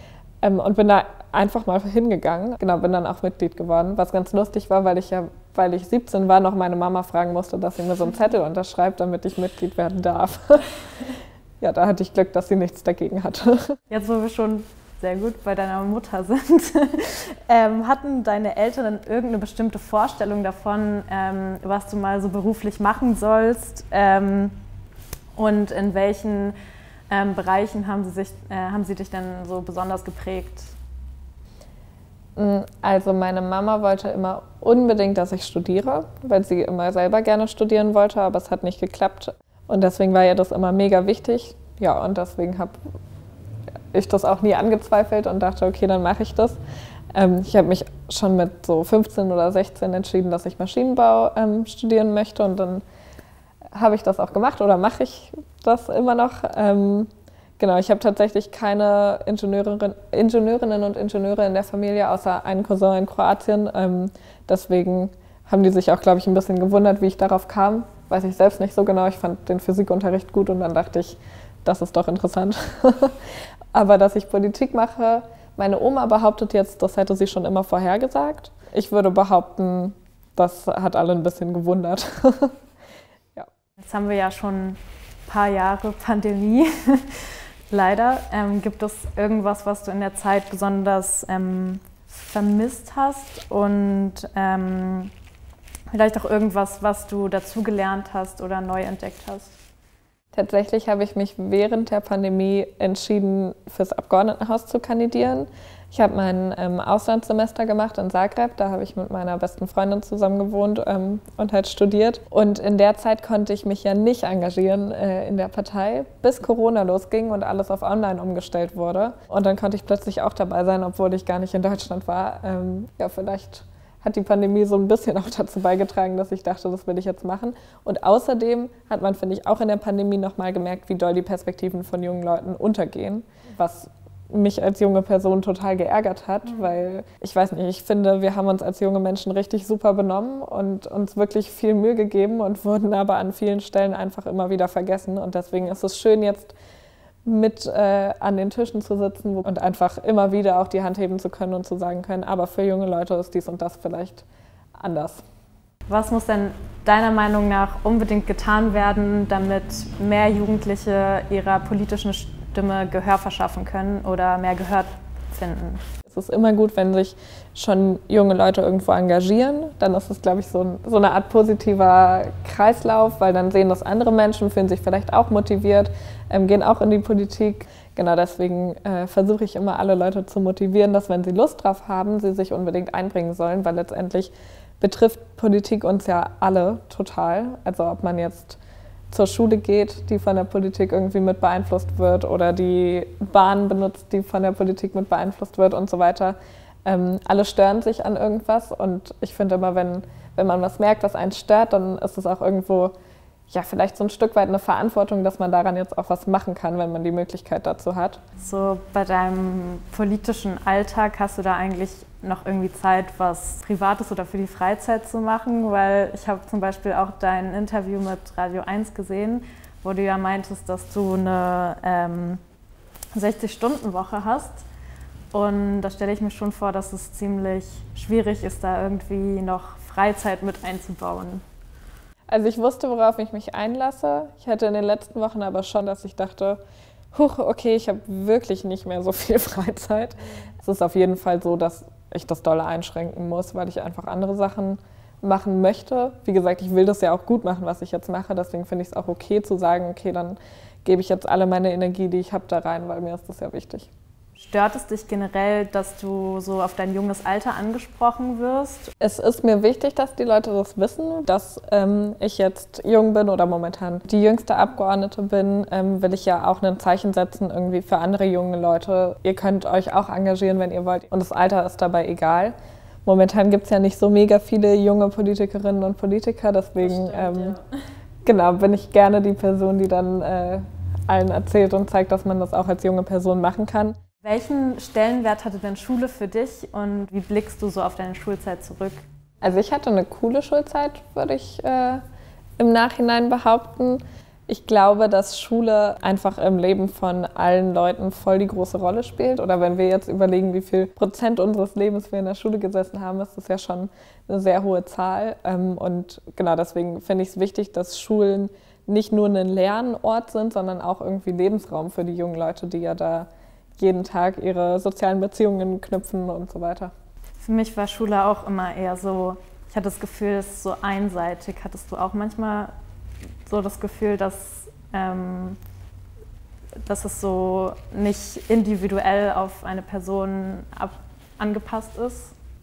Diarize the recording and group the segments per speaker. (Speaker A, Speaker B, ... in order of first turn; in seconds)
Speaker A: 0.4-13.8, 32.4-42.8, 43.9-46.6, 47.1-52.8, 53.7-73.2, 73.7-82.6, 100.3-146.6, 147.3-154.3, 154.8-155.2, 166.1-188.6, 189.1-202.9, 203.5-208.2, 232.3-236.6, 237.1-253.9, 259.0-277.6, 278.2-283.9, 289.4-292.0, 292.6-316.9
Speaker B: 13.9-24.6, 25.4-26.6, 27.1-30.7, 83.8-95.1, 95.9-99.5, 155.9-165.8, 208.4-222.4, 223.1-224.6, 225.3-231.4, 254.4-258.9, 276.8-277.6, 284.2-289.1, 317.4-322.7, 323.5-325.6, 326.9-332.3